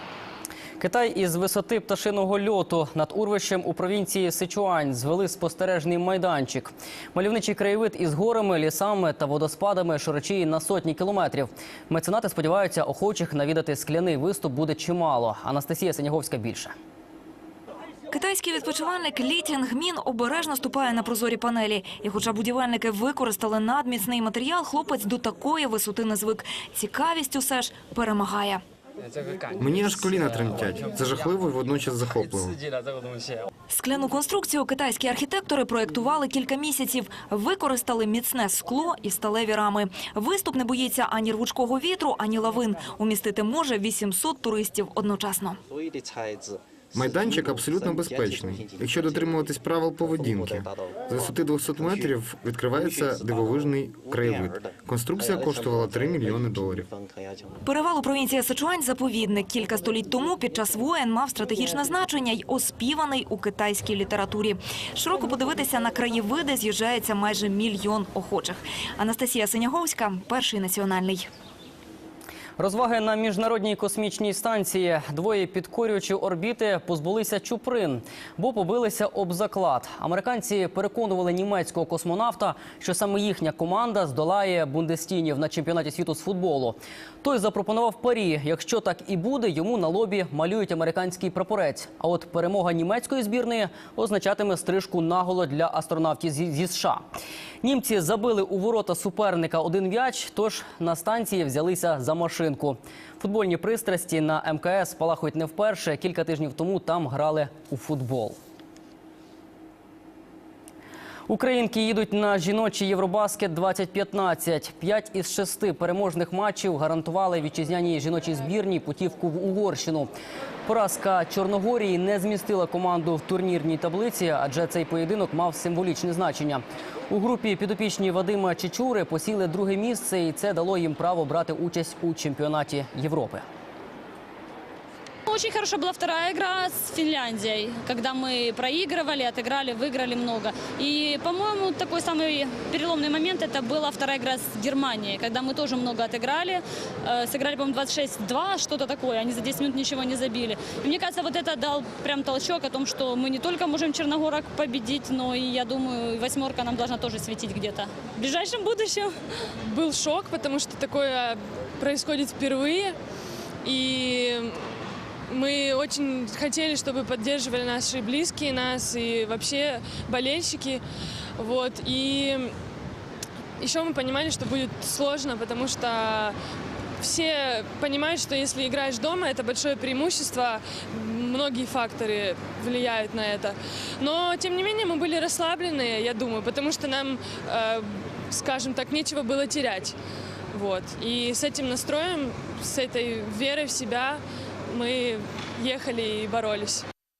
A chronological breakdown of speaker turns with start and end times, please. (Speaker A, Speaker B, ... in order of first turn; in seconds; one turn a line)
Speaker A: 0.8-16.7
Speaker B: 18.1-28.6
Speaker C: 29.5-32.6
Speaker B: 33.7-45.6
Speaker C: 46.9-57.0
Speaker B: 57.6-71.3
Speaker A: 72.6-97.0
Speaker A: 97.6-108.4
Speaker A: 111.3-120.1
Speaker A: 120.7-133.4
Speaker D: 135.3-146.6
Speaker D: 147.3-159.0
Speaker E: 159.7-162.9
Speaker E: 163.6-164.6
Speaker E: 165.3-170.8
Speaker E: 171.4-172.5
Speaker E: 173.6-176.4
Speaker E: 177.0-189.9
Speaker E: 190.5-196.8